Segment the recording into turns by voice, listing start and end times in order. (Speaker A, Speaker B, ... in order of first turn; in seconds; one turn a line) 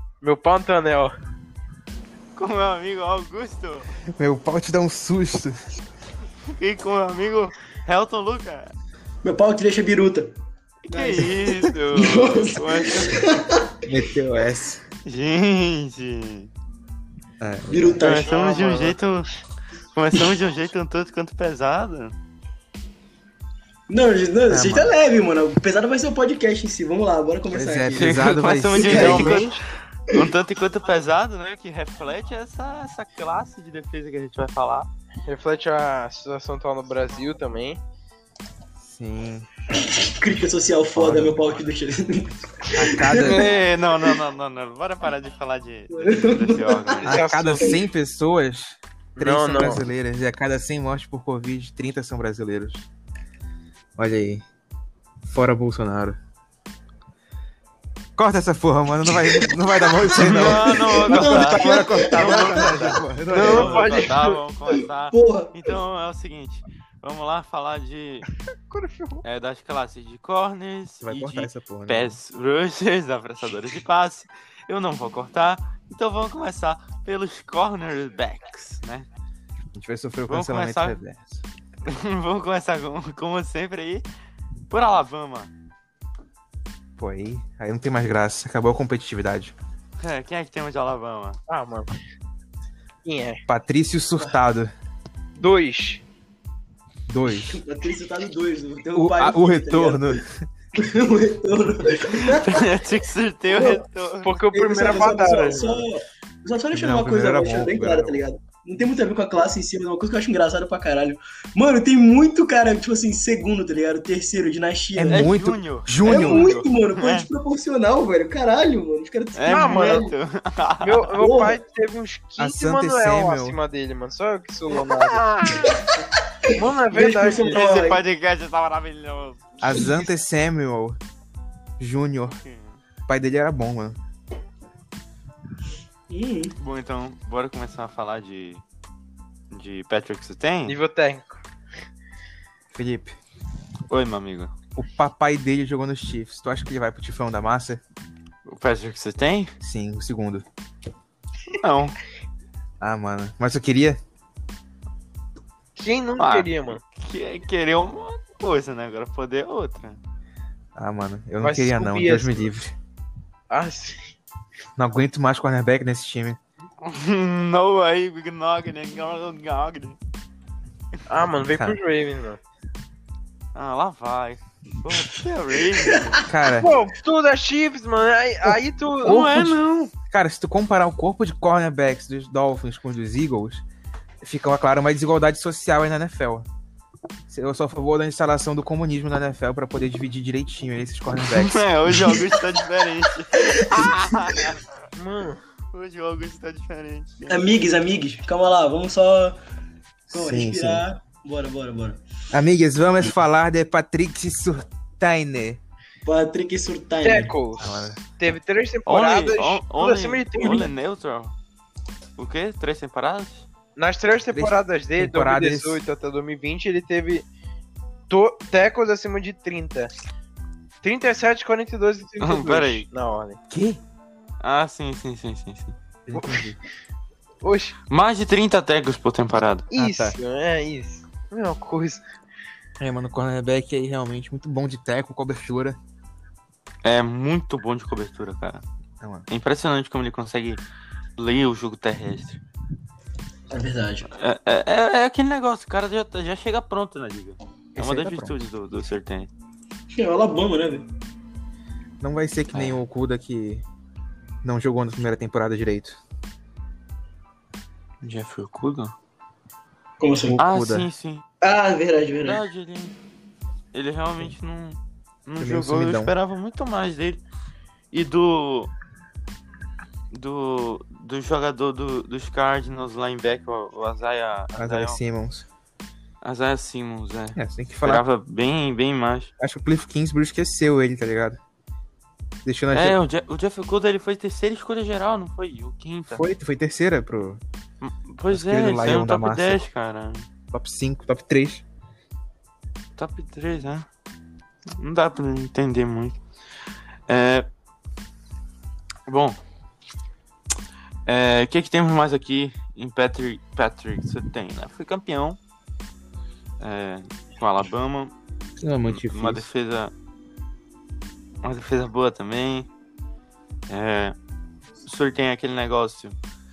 Speaker A: 0.2-1.2
Speaker B: 2.4-3.9
Speaker C: 4.2-5.6
Speaker B: 6.4-8.7
Speaker D: 9.2-10.3
Speaker B: 10.8-13.3
Speaker D: 10.9-13.8
Speaker C: 13.8-14.8
Speaker B: 15.0-16.5
Speaker C: 17.4-18.0
Speaker D: 17.7-19.0
Speaker B: 18.0-19.3
Speaker B: 19.9-22.1
Speaker D: 23.9-29.5
Speaker C: 24.5-24.9
Speaker C: 27.5-29.4
Speaker B: 28.0-29.5
Speaker A: 28.8-29.6
Speaker B: 30.1-34.9
Speaker A: 35.3-37.8
Speaker C: 38.8-39.5
Speaker D: 39.7-43.4
Speaker C: 41.0-41.4
Speaker C: 42.7-43.5
Speaker A: 43.1-43.5
Speaker B: 43.3-47.3
Speaker D: 45.9-47.1
Speaker C: 47.0-52.9
Speaker A: 47.1-47.8
Speaker A: 49.2-49.8
Speaker C: 54.0-54.5
Speaker C: 55.2-56.2
Speaker C: 58.2-63.8
Speaker D: 59.5-64.1
Speaker B: 60.1-68.3
Speaker A: 63.3-64.4
Speaker D: 64.7-65.8
Speaker A: 68.7-69.2
Speaker B: 69.2-79.1
Speaker C: 71.0-72.2
Speaker C: 79.7-81.4
Speaker B: 80.3-81.0
Speaker B: 81.8-84.1
Speaker B: 84.7-85.5
Speaker C: 87.0-89.5
Speaker B: 90.0-91.4
Speaker A: 91.5-91.9
Speaker A: 93.0-93.4
Speaker C: 93.5-94.7
Speaker A: 95.4-96.0
Speaker C: 97.1-97.6
Speaker D: 97.5-100.2
Speaker C: 98.9-100.5
Speaker D: 100.8-102.9
Speaker B: 102.1-104.4
Speaker D: 103.5-103.8
Speaker A: 104.2-105.8
Speaker D: 104.5-115.4
Speaker C: 106.7-108.2
Speaker C: 115.0-116.5
Speaker B: 115.1-117.3
Speaker D: 116.0-120.1
Speaker B: 119.3-121.2
Speaker A: 119.5-120.1
Speaker A: 120.8-125.3
Speaker D: 121.2-121.6
Speaker C: 122.4-123.6
Speaker B: 124.7-125.8
Speaker D: 125.7-128.0
Speaker A: 126.5-127.6
Speaker B: 127.3-129.5
Speaker C: 129.6-131.0
Speaker C: 131.8-132.4
Speaker B: 132.3-132.8
Speaker C: 133.1-134.0
Speaker D: 136.1-136.6
Speaker B: 136.6-138.6
Speaker B: 139.5-140.8
Speaker A: 140.7-141.4
Speaker C: 142.7-143.2
Speaker B: 143.9-144.5
Speaker C: 144.8-147.8
Speaker B: 148.5-149.5
Speaker C: 149.6-150.5
Speaker B: 151.6-152.0
Speaker C: 152.8-154.0
Speaker A: 155.8-156.8
Speaker B: 156.2-160.0
Speaker C: 160.8-162.8
Speaker A: 161.4-162.5
Speaker A: 163.5-164.1
Speaker C: 164.8-166.4
Speaker B: 166.8-170.0
Speaker A: 171.1-172.4
Speaker C: 171.5-171.8
Speaker B: 173.6-176.3
Speaker C: 176.2-176.7
Speaker A: 176.5-179.2
Speaker C: 178.4-183.6
Speaker B: 179.0-179.9
Speaker C: 184.2-186.5
Speaker C: 187.3-191.7
Speaker B: 191.2-194.7
Speaker D: 193.4-193.9
Speaker A: 195.0-195.4
Speaker B: 195.7-197.4
Speaker D: 197.3-199.4
Speaker C: 200.1-200.8
Speaker D: 200.1-202.0
Speaker C: 202.3-205.6
Speaker D: 206.0-207.3
Speaker A: 207.0-210.7
Speaker C: 207.6-208.0
Speaker B: 208.9-211.3
Speaker B: 212.2-213.5
Speaker A: 213.8-217.3
Speaker C: 214.3-215.8
Speaker A: 218.1-219.9
Speaker A: 220.8-223.4
Speaker B: 222.2-222.9
Speaker C: 223.5-223.8
Speaker B: 224.4-225.8
Speaker C: 226.1-226.6
Speaker A: 226.1-226.5
Speaker A: 227.4-227.8
Speaker B: 227.9-229.7
Speaker A: 229.7-232.0
Speaker C: 229.7-230.2
Speaker C: 232.8-235.8
Speaker B: 236.8-238.6
Speaker C: 239.0-239.3
Speaker B: 239.3-240.6
Speaker B: 241.2-242.4
Speaker D: 243.5-244.1
Speaker B: 244.1-249.3
Speaker C: 247.8-248.3
Speaker D: 249.9-250.9
Speaker C: 252.0-253.6
Speaker B: 252.5-252.8
Speaker C: 254.4-256.0
Speaker B: 258.0-258.9
Speaker D: 260.0-260.4
Speaker C: 260.3-260.9
Speaker B: 260.4-261.2
Speaker D: 261.4-262.4
Speaker B: 262.2-262.9
Speaker B: 263.7-267.2
Speaker C: 265.4-266.1
Speaker B: 267.9-268.7
Speaker B: 270.1-275.0
Speaker C: 274.6-275.5
Speaker B: 276.2-279.3
Speaker C: 277.4-278.1
Speaker C: 279.4-281.4
Speaker C: 282.4-283.0
Speaker B: 282.7-286.2
Speaker C: 286.1-287.4
Speaker B: 287.8-290.3
Speaker C: 288.3-289.6
Speaker C: 290.5-291.6
Speaker B: 293.0-293.9
Speaker B: 294.7-296.2
Speaker B: 297.1-297.5
Speaker B: 299.1-299.4
Speaker B: 301.1-305.4
Speaker B: 306.6-308.1
Speaker C: 308.6-309.5
Speaker B: 308.9-309.9
Speaker B: 311.4-312.7
Speaker B: 313.7-314.2
Speaker B: 314.8-316.2